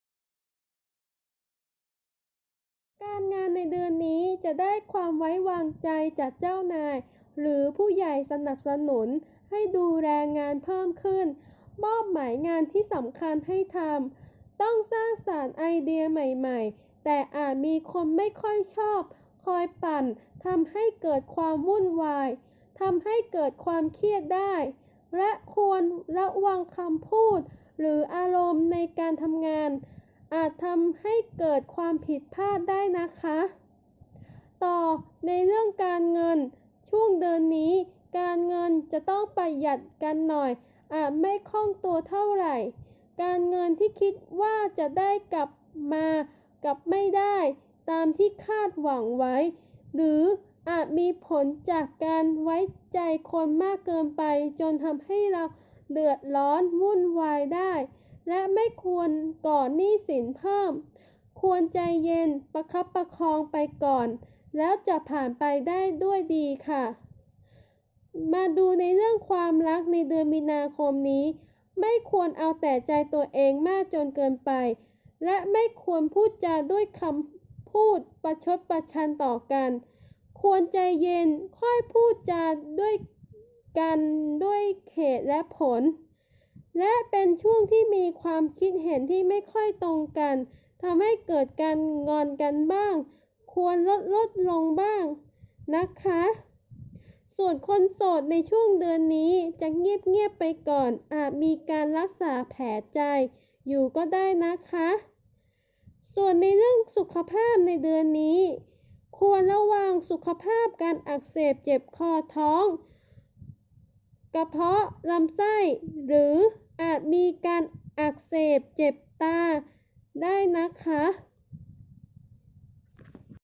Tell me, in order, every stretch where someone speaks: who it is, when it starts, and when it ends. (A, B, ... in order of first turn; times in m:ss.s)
0:03.0-0:33.5 A
0:34.6-1:07.0 A
1:08.1-1:19.8 A
1:20.3-1:23.0 A
1:23.7-1:25.9 A
1:26.7-1:35.2 A
1:35.7-1:36.3 A
1:37.3-1:45.0 A
1:46.0-1:48.6 A
1:49.1-1:52.8 A
1:54.3-1:59.6 A
2:00.1-2:01.1 A